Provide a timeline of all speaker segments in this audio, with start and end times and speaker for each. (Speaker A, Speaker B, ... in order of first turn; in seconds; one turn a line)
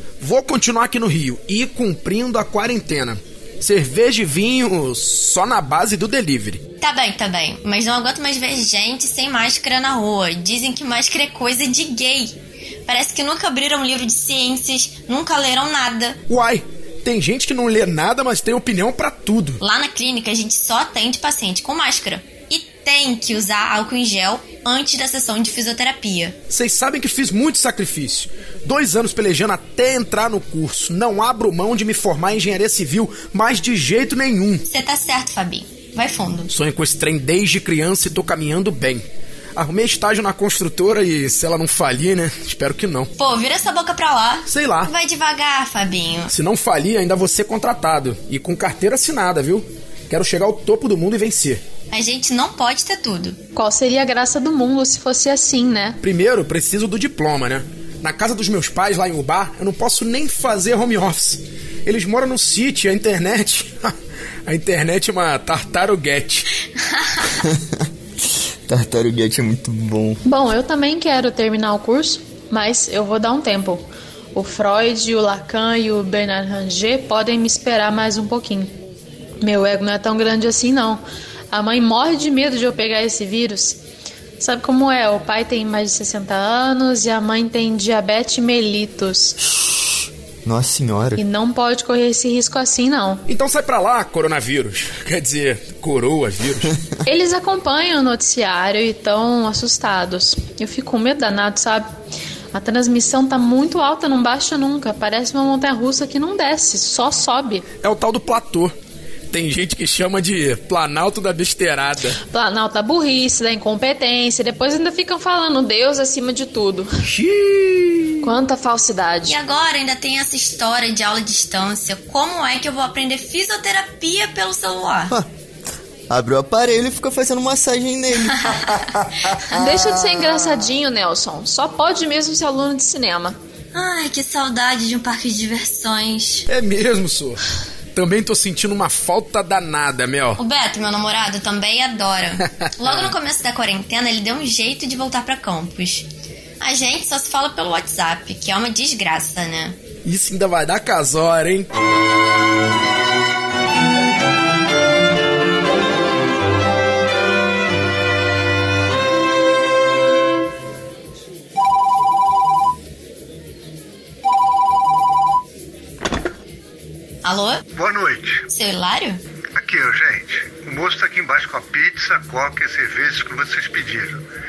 Speaker A: 0.2-6.6
Speaker B: 6.8-16.2
Speaker A: 16.3-19.6
Speaker B: 19.6-26.4
Speaker A: 26.5-34.6
Speaker B: 34.7-36.5
Speaker A: 36.5-43.1
Speaker B: 43.2-46.3
Speaker A: 44.5-44.9
Speaker A: 46.3-51.6
Speaker B: 51.9-53.4
Speaker C: 53.5-56.0
Speaker A: 56.0-63.9
Speaker A: 64.5-66.5
Speaker B: 66.8-67.4
Speaker D: 67.4-67.8
Speaker D: 68.7-70.2
Speaker C: 70.2-78.7
Speaker C: 79.4-81.0
Speaker C: 81.5-83.8
Speaker C: 84.4-89.3
Speaker D: 89.4-91.2
Speaker C: 91.2-93.2
Speaker A: 93.3-96.8
Speaker C: 97.0-101.9
Speaker C: 102.5-107.7
Speaker A: 107.8-108.7
Speaker A: 109.3-112.2
Speaker C: 112.3-116.9
Speaker A: 117.0-118.3
Speaker C: 118.2-119.4
Speaker B: 119.2-125.1
Speaker D: 126.1-129.1
Speaker C: 129.5-133.4
Speaker B: 133.7-136.5
Speaker A: 136.5-137.4
Speaker A: 137.9-140.4
Speaker B: 140.4-146.1
Speaker A: 142.6-143.1
Speaker B: 146.6-149.8
Speaker A: 150.0-151.7
Speaker B: 167.2-167.6
Speaker E: 167.8-168.4
Speaker B: 168.5-169.2
Speaker E: 169.5-174.2